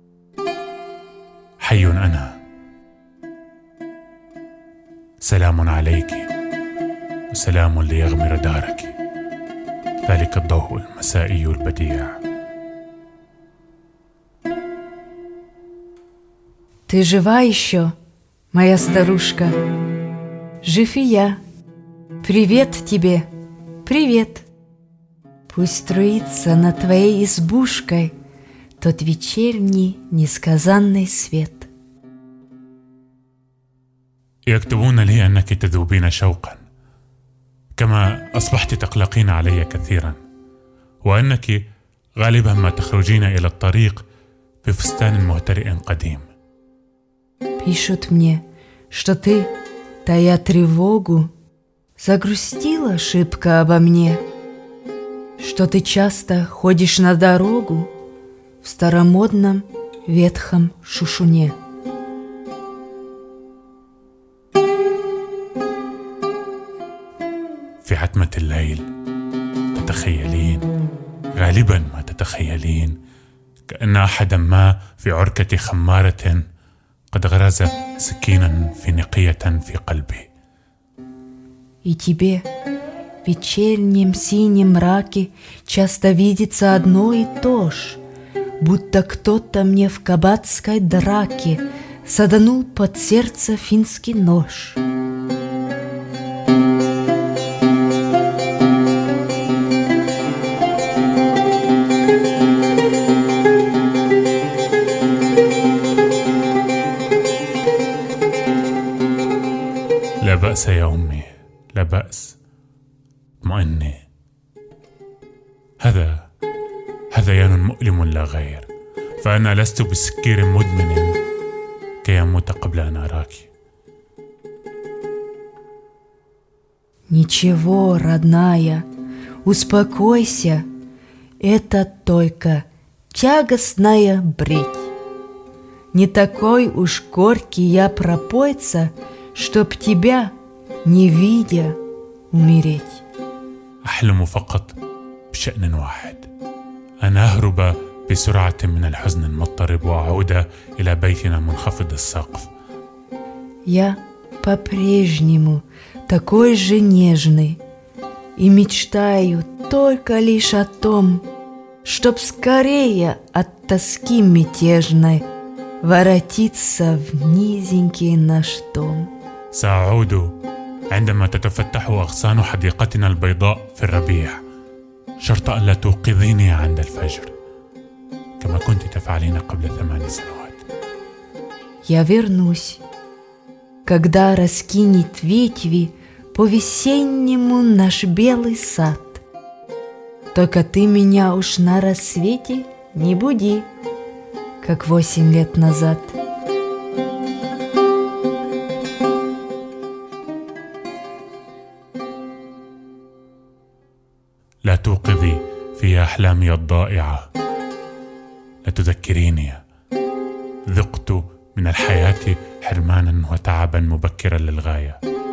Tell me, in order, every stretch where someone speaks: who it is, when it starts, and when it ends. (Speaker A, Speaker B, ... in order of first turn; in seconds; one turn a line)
Speaker A: 1.6-2.3
Speaker A: 5.2-6.3
Speaker A: 7.3-8.9
Speaker A: 10.0-12.2
Speaker B: 16.9-17.9
Speaker B: 18.5-19.6
Speaker B: 20.6-21.4
Speaker B: 22.2-23.3
Speaker B: 23.8-24.5
Speaker B: 25.5-28.1
Speaker B: 28.8-31.7
Speaker A: 34.5-36.6
Speaker A: 37.8-40.2
Speaker A: 41.0-41.6
Speaker A: 42.2-44.0
Speaker A: 44.6-46.2
Speaker B: 47.6-49.5
Speaker B: 50.0-51.3
Speaker B: 52.0-54.2
Speaker B: 55.4-57.9
Speaker B: 58.6-61.5
Speaker A: 67.8-68.8
Speaker A: 69.7-70.7
Speaker A: 71.3-73.0
Speaker A: 73.7-76.4
Speaker A: 77.1-80.3
Speaker B: 81.8-82.5
Speaker B: 83.2-88.0
Speaker B: 88.6-94.8
Speaker A: 110.2-112.4
Speaker A: 113.4-114.0
Speaker A: 115.8-116.2
Speaker A: 117.1-118.7
Speaker A: 119.2-121.2
Speaker A: 122.0-123.5
Speaker B: 127.1-128.9
Speaker B: 129.4-130.7
Speaker B: 131.4-134.9
Speaker B: 135.9-140.3
Speaker B: 140.8-141.8
Speaker B: 142.3-143.0
Speaker A: 143.8-144.7
Speaker A: 145.3-146.3
Speaker A: 147.0-152.5
Speaker B: 153.7-157.6
Speaker B: 158.4-161.2
Speaker B: 161.8-165.2
Speaker B: 165.8-169.1
Speaker A: 169.5-170.3
Speaker A: 170.9-174.4
Speaker A: 175.2-177.3
Speaker A: 178.4-180.6
Speaker B: 181.8-182.8
Speaker B: 183.8-189.2
Speaker B: 190.3-193.7
Speaker B: 194.6-196.1
Speaker A: 204.6-207.3
Speaker A: 208.6-209.6
Speaker A: 210.7-215.0